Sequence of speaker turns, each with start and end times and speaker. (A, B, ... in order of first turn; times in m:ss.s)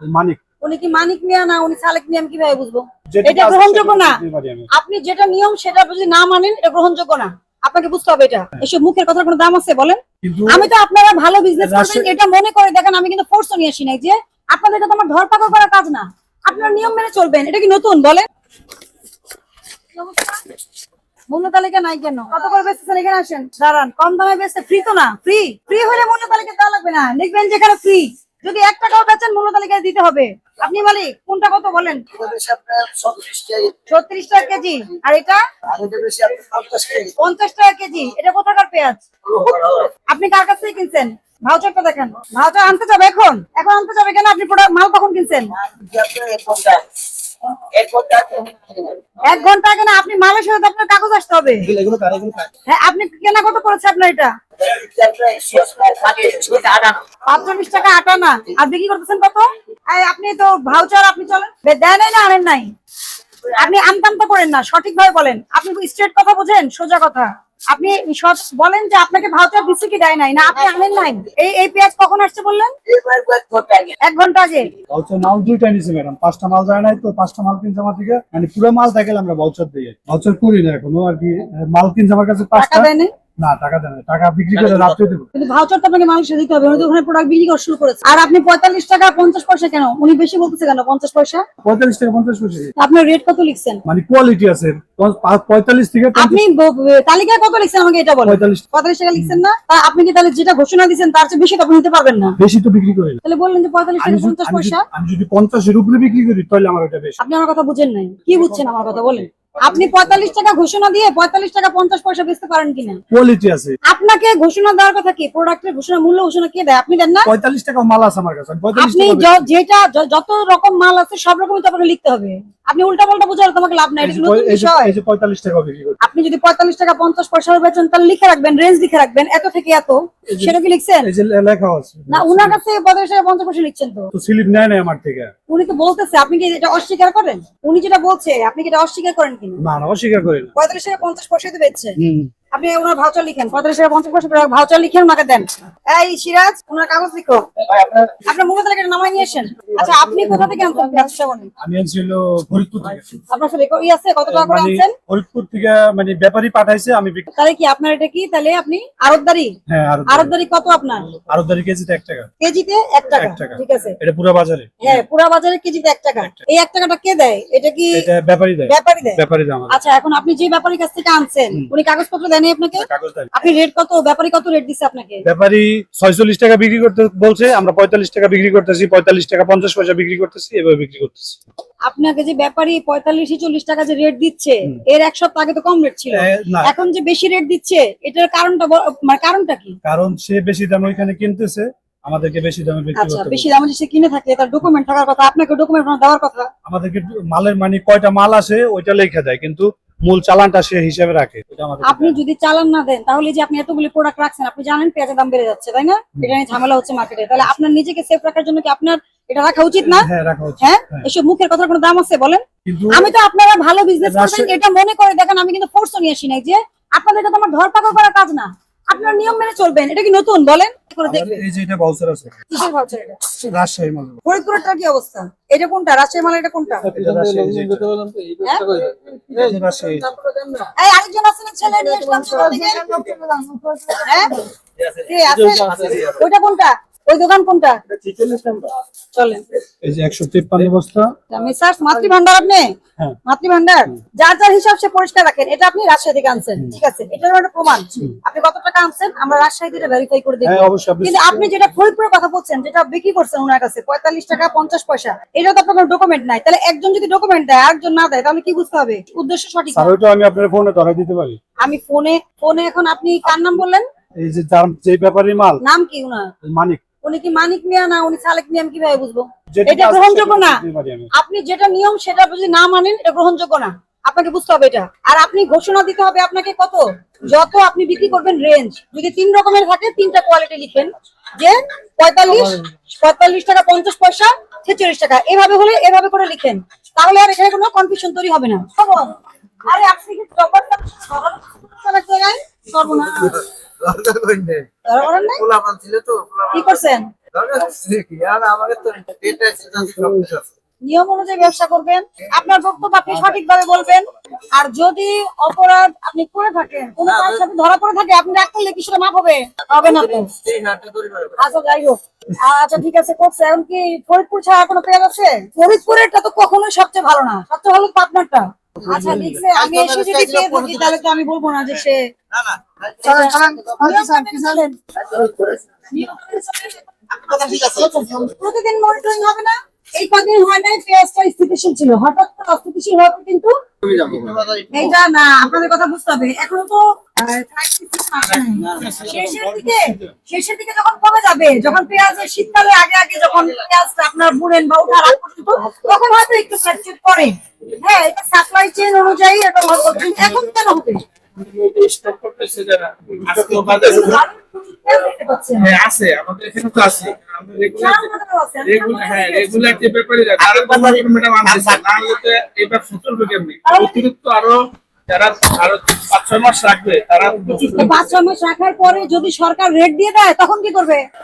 0:00.1-0:00.4 A
0:00.6-0:04.2 B
0:03.1-0:04.7 A
0:04.7-0:18.3 B
0:10.2-0:10.7 A
0:11.6-0:12.1 A
0:19.9-0:20.5 B
0:21.3-0:32.0 B
0:32.1-0:33.8 C
0:33.9-0:35.4 B
0:35.7-0:37.1 C
0:37.2-0:39.0 B
0:39.2-0:39.9 C
0:40.1-0:45.5 B
0:45.6-0:46.9 C
0:47.5-0:49.1 C
0:49.2-0:51.7 B
0:51.7-0:52.5 C
0:52.7-0:54.3 B
0:54.6-0:57.0 C
0:57.2-1:02.7 B
1:03.6-1:12.7 B
1:12.9-1:14.0 C
1:14.0-1:14.7 B
1:14.9-1:25.3 A
1:22.5-1:23.1 B
1:25.4-1:31.4 B
1:31.6-1:32.7 A
1:32.8-1:33.8 B
1:33.8-1:36.4 A
1:36.2-1:42.4 B
1:38.2-1:38.6 A
1:39.1-1:39.4 A
1:42.4-1:43.2 A
1:43.2-1:44.8 B
1:44.0-1:47.2 A
1:47.2-1:53.0 B
1:53.1-1:53.8 A
1:53.9-1:57.3 B
1:57.2-1:59.5 A
1:58.8-2:04.9 B
2:04.0-2:06.0 A
2:06.0-2:11.1 B
2:10.3-2:12.6 A
2:12.1-2:14.1 B
2:14.1-2:15.3 A
2:15.5-2:19.6 B
2:19.6-2:20.5 A
2:20.6-2:22.0 B
2:22.0-2:22.3 A
2:22.5-2:31.5 B
2:29.7-2:30.5 A
2:31.6-2:33.2 A
2:33.3-2:34.9 B
2:34.2-2:37.3 A
2:37.4-2:39.5 B
2:39.7-2:40.3 A
2:40.1-2:41.1 B
2:41.2-2:42.3 A
2:42.4-2:44.0 B
2:43.1-2:45.0 A
2:44.8-2:48.1 B
2:47.9-2:49.8 A
2:48.7-2:55.2 B
2:52.8-2:53.3 A
2:55.2-3:01.4 A
3:01.8-3:09.8 B
3:06.1-3:06.7 A
3:09.8-3:13.5 A
3:13.0-3:16.5 B
3:16.6-3:22.2 A
3:21.8-3:30.1 B
3:29.9-3:31.1 A
3:30.6-3:41.4 B
3:32.6-3:33.1 A
3:34.0-3:34.5 A
3:41.0-3:42.4 A
3:42.5-3:43.3 B
3:43.3-3:44.2 A
3:44.2-3:46.9 B
3:46.9-3:47.9 A
3:47.3-3:50.7 C
3:48.4-3:48.7 B
3:49.3-3:50.1 A
3:50.8-3:53.1 B
3:51.7-3:53.4 C
3:53.9-3:54.4 B
3:54.8-3:56.2 C
3:55.0-3:57.8 B
3:58.0-3:58.4 D
3:58.3-3:58.5 C
3:59.1-3:59.4 B
3:59.8-4:01.1 A
4:01.3-4:02.7 B
4:03.2-4:19.9 B
4:10.4-4:11.5 A
4:19.7-4:21.4 A
4:21.6-4:23.8 B
4:24.2-4:25.6 A
4:25.6-4:26.3 B
4:26.5-4:26.8 A
4:27.0-4:30.6 B
4:29.5-4:31.1 A
4:31.1-4:53.4 B
4:53.1-4:56.7 C
4:54.8-4:55.5 B
4:56.5-4:57.1 B
4:57.3-5:00.5 C
5:00.8-5:10.3 B
5:07.1-5:07.4 C
5:09.8-5:11.4 C
5:11.4-5:22.0 B
5:18.8-5:21.0 C
5:22.3-5:24.0 C
5:23.0-5:25.2 B
5:25.1-5:25.6 C
5:25.9-5:33.5 B
5:27.1-5:28.2 C
5:33.8-5:34.9 C
5:34.7-5:51.0 B
5:38.2-5:40.0 D
5:50.0-5:50.4 D
5:51.4-5:54.2 D
5:53.7-5:55.8 B
5:55.6-5:58.1 D
5:57.7-5:59.8 B
5:58.6-6:08.1 D
6:03.6-6:04.1 B
6:07.7-6:11.0 B